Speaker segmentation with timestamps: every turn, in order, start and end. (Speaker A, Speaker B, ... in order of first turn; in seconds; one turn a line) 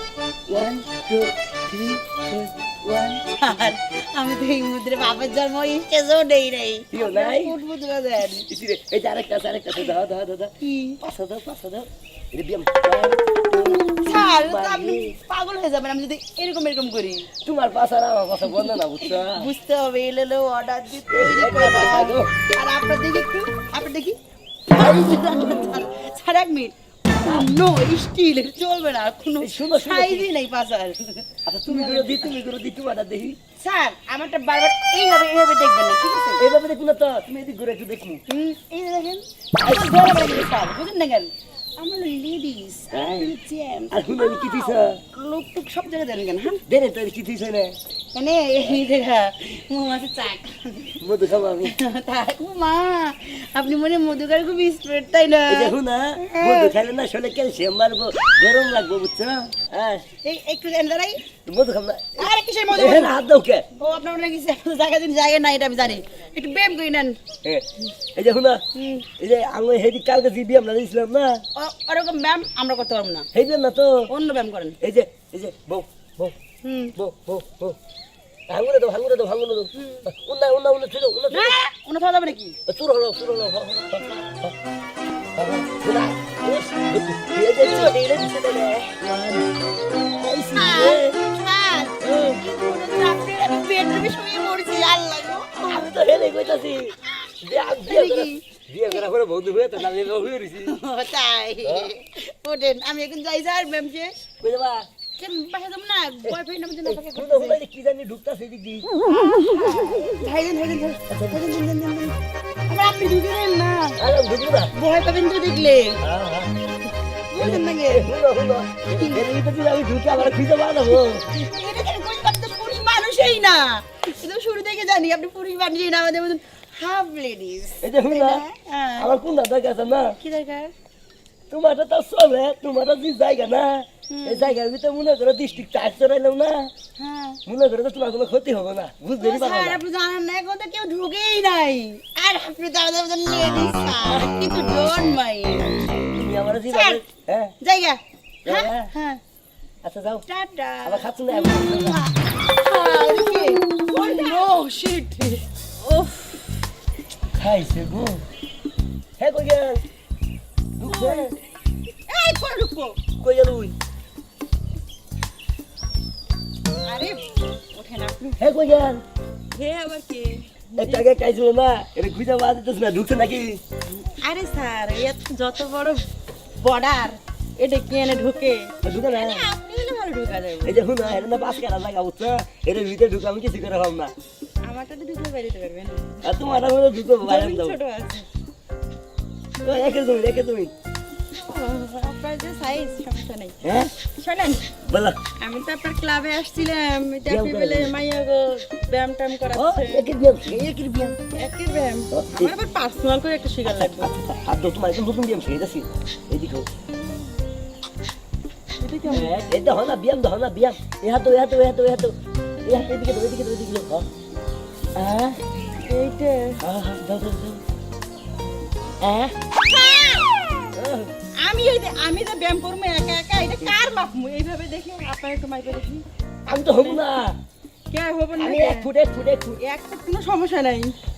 Speaker A: 0.5-3.3
Speaker B: 3.3-8.5
Speaker A: 6.9-7.5
Speaker A: 8.3-15.2
Speaker B: 10.6-11.0
Speaker B: 13.8-17.3
Speaker A: 17.4-19.5
Speaker B: 19.0-32.3
Speaker A: 21.1-22.3
Speaker A: 24.7-25.7
Speaker A: 29.4-30.3
Speaker A: 31.5-33.4
Speaker B: 33.6-36.4
Speaker A: 36.4-38.2
Speaker B: 38.3-46.6
Speaker A: 39.6-40.3
Speaker A: 42.9-43.3
Speaker A: 43.9-45.0
Speaker A: 46.7-47.8
Speaker B: 48.1-51.0
Speaker A: 51.0-51.8
Speaker B: 51.6-56.8
Speaker A: 55.5-60.0
Speaker B: 60.2-61.2
Speaker A: 61.5-63.7
Speaker B: 62.2-63.1
Speaker B: 63.8-67.2
Speaker A: 67.4-68.6
Speaker B: 68.8-69.1
Speaker A: 69.2-71.4
Speaker B: 71.6-73.3
Speaker A: 73.3-74.1
Speaker B: 74.1-74.8
Speaker A: 74.8-76.3
Speaker B: 76.6-77.0
Speaker A: 77.0-77.8
Speaker A: 78.5-81.6
Speaker B: 79.8-80.0
Speaker B: 81.3-82.6
Speaker A: 82.7-84.5
Speaker A: 85.4-88.2
Speaker B: 87.6-89.0
Speaker A: 88.9-89.5
Speaker A: 90.2-91.2
Speaker B: 90.5-95.8
Speaker A: 92.0-92.4
Speaker A: 95.5-100.8
Speaker B: 97.2-99.0
Speaker B: 100.6-104.3
Speaker A: 101.6-101.9
Speaker A: 104.4-104.9
Speaker B: 105.2-107.6
Speaker A: 106.2-108.9
Speaker B: 109.0-112.2
Speaker A: 111.1-111.4
Speaker B: 112.7-114.0
Speaker A: 114.0-114.7
Speaker B: 114.7-116.0
Speaker A: 116.0-116.5
Speaker B: 117.3-118.1
Speaker A: 117.4-121.2
Speaker B: 118.9-119.3
Speaker B: 121.3-129.1
Speaker A: 127.8-128.4
Speaker A: 129.0-130.2
Speaker B: 130.2-130.7
Speaker A: 131.5-136.7
Speaker B: 134.1-134.6
Speaker B: 137.0-137.4
Speaker A: 137.5-139.8
Speaker B: 139.2-146.0
Speaker A: 146.1-147.5
Speaker B: 146.7-147.0
Speaker B: 147.6-149.2
Speaker A: 148.4-148.9
Speaker A: 149.8-150.2
Speaker B: 150.3-156.3
Speaker A: 150.8-152.0
Speaker A: 157.3-158.2
Speaker A: 159.2-159.8
Speaker A: 160.8-161.3
Speaker B: 160.8-161.3
Speaker B: 162.1-162.9
Speaker A: 163.2-163.8
Speaker B: 166.9-167.2
Speaker B: 167.7-168.5
Speaker A: 168.4-169.0
Speaker B: 169.5-171.1
Speaker A: 170.8-173.6
Speaker B: 174.0-176.1
Speaker B: 176.6-180.8
Speaker A: 178.8-179.5
Speaker A: 180.7-184.1
Speaker B: 184.7-186.2
Speaker A: 186.2-187.8
Speaker B: 187.2-188.3
Speaker A: 189.6-190.7
Speaker B: 191.5-193.5
Speaker A: 193.6-193.9
Speaker B: 194.2-194.6
Speaker A: 194.9-195.2
Speaker B: 195.4-200.1
Speaker A: 197.3-197.9
Speaker A: 199.5-201.2
Speaker B: 201.3-204.1
Speaker A: 202.1-202.5
Speaker A: 203.7-206.7
Speaker B: 208.8-209.5
Speaker A: 209.1-212.2
Speaker A: 212.7-214.1
Speaker A: 215.0-215.4
Speaker B: 215.9-216.6
Speaker A: 216.6-217.6
Speaker A: 219.0-219.3
Speaker B: 219.6-220.4
Speaker A: 220.7-221.1
Speaker B: 221.4-226.0
Speaker A: 226.5-227.4
Speaker B: 226.7-227.0
Speaker B: 227.9-228.9
Speaker A: 228.4-229.6
Speaker B: 229.6-230.9